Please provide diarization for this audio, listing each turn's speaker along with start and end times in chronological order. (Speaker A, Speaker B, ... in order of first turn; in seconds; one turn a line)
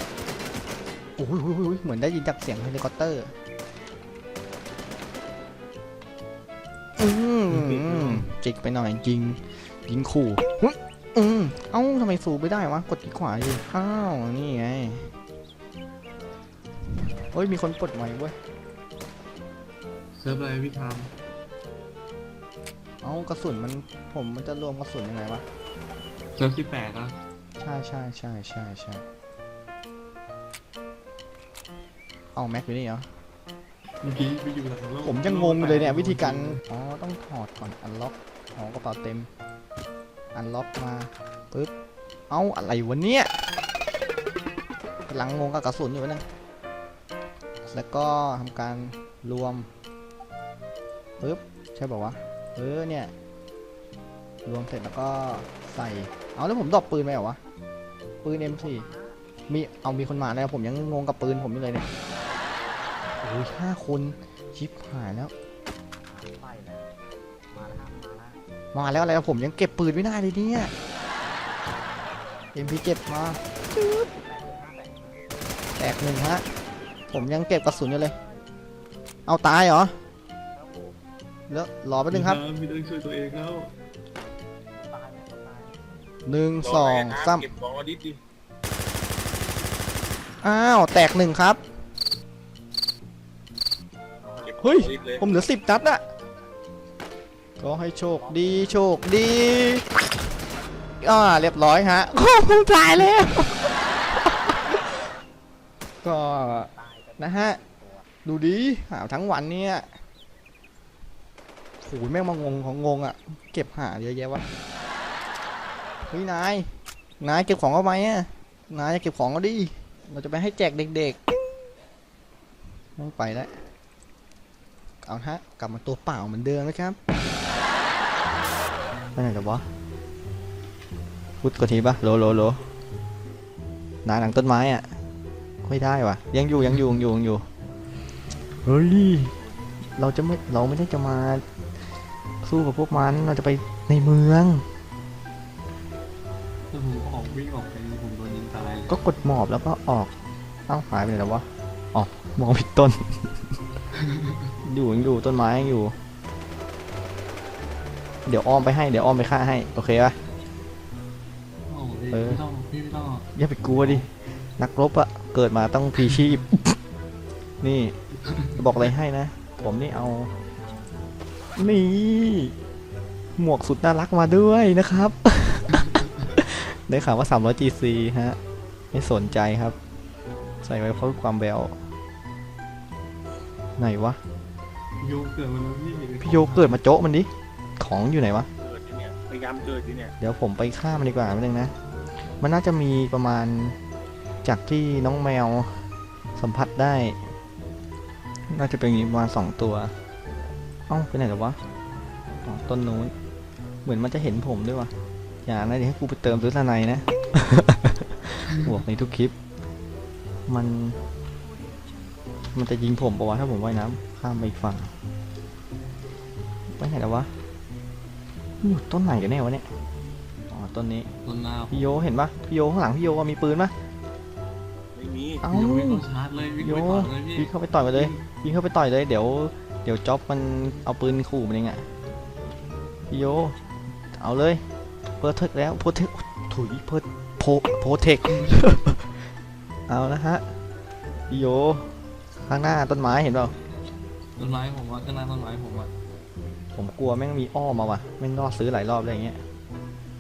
Speaker A: 1.2-3.3
Speaker A: 7.0-15.1
Speaker B: 7.5-8.3
Speaker A: 17.3-18.4
Speaker B: 20.1-21.1
Speaker A: 23.0-25.4
Speaker B: 26.4-27.2
Speaker A: 27.6-29.0
Speaker A: 32.4-33.1
Speaker B: 34.0-36.6
Speaker A: 35.0-39.3
Speaker A: 40.3-41.7
Speaker A: 42.3-43.3
Speaker A: 45.1-46.2
Speaker A: 47.7-49.7
Speaker A: 51.2-53.1
Speaker A: 54.5-57.4
Speaker A: 58.2-58.9
Speaker C: 58.4-59.2
Speaker A: 59.5-61.9
Speaker C: 61.6-63.2
Speaker A: 63.2-65.3
Speaker C: 66.1-66.9
Speaker C: 67.5-68.4
Speaker A: 68.7-70.7
Speaker C: 70.7-71.8
Speaker A: 72.5-74.1
Speaker C: 73.5-75.4
Speaker A: 75.8-76.5
Speaker A: 77.1-78.2
Speaker C: 77.1-78.4
Speaker A: 79.3-79.9
Speaker C: 80.5-81.0
Speaker A: 81.5-82.4
Speaker B: 82.1-83.7
Speaker C: 84.7-86.1
Speaker A: 86.2-87.5
Speaker D: 86.6-88.2
Speaker A: 90.4-91.6
Speaker C: 94.2-95.5
Speaker D: 94.4-95.4
Speaker A: 94.6-96.0
Speaker A: 97.6-99.9
Speaker C: 98.2-98.8
Speaker A: 101.0-105.0
Speaker A: 106.0-107.6
Speaker C: 106.4-108.1
Speaker A: 108.2-109.9
Speaker A: 111.8-114.4
Speaker A: 116.1-121.2
Speaker A: 123.0-123.6
Speaker A: 125.0-127.0
Speaker A: 129.2-129.7
Speaker A: 131.4-132.6
Speaker A: 134.1-134.9
Speaker A: 135.6-137.4
Speaker A: 138.6-139.3
Speaker A: 140.0-141.4
Speaker A: 142.4-144.6
Speaker B: 146.7-148.9
Speaker A: 148.9-150.1
Speaker A: 150.7-153.5
Speaker B: 154.0-154.5
Speaker A: 154.6-155.9
Speaker A: 158.2-160.2
Speaker B: 161.7-164.1
Speaker A: 162.1-162.4
Speaker A: 163.3-166.8
Speaker A: 167.6-168.0
Speaker B: 168.2-168.7
Speaker A: 168.6-170.3
Speaker A: 171.6-172.5
Speaker A: 173.4-178.4
Speaker B: 175.7-176.1
Speaker A: 178.9-179.8
Speaker A: 180.6-181.8
Speaker A: 183.8-184.2
Speaker B: 185.0-186.8
Speaker A: 186.2-188.5
Speaker D: 188.6-190.1
Speaker A: 190.2-191.7
Speaker A: 192.4-193.8
Speaker A: 194.4-195.8
Speaker A: 196.4-197.2
Speaker A: 198.5-199.9
Speaker A: 200.9-201.6
Speaker A: 202.4-203.1
Speaker A: 203.8-204.9
Speaker A: 205.4-209.3
Speaker A: 210.5-211.0
Speaker A: 212.6-214.9
Speaker A: 216.8-217.3
Speaker A: 218.6-219.7
Speaker A: 220.5-221.1
Speaker B: 221.2-222.0
Speaker A: 221.7-223.7
Speaker D: 224.9-225.5
Speaker A: 225.4-226.1
Speaker B: 225.5-228.2
Speaker A: 226.6-231.9
Speaker A: 233.1-233.6
Speaker A: 234.2-234.6
Speaker A: 235.2-239.2
Speaker A: 239.9-240.5
Speaker A: 241.3-243.5
Speaker B: 244.4-245.9
Speaker A: 246.8-249.4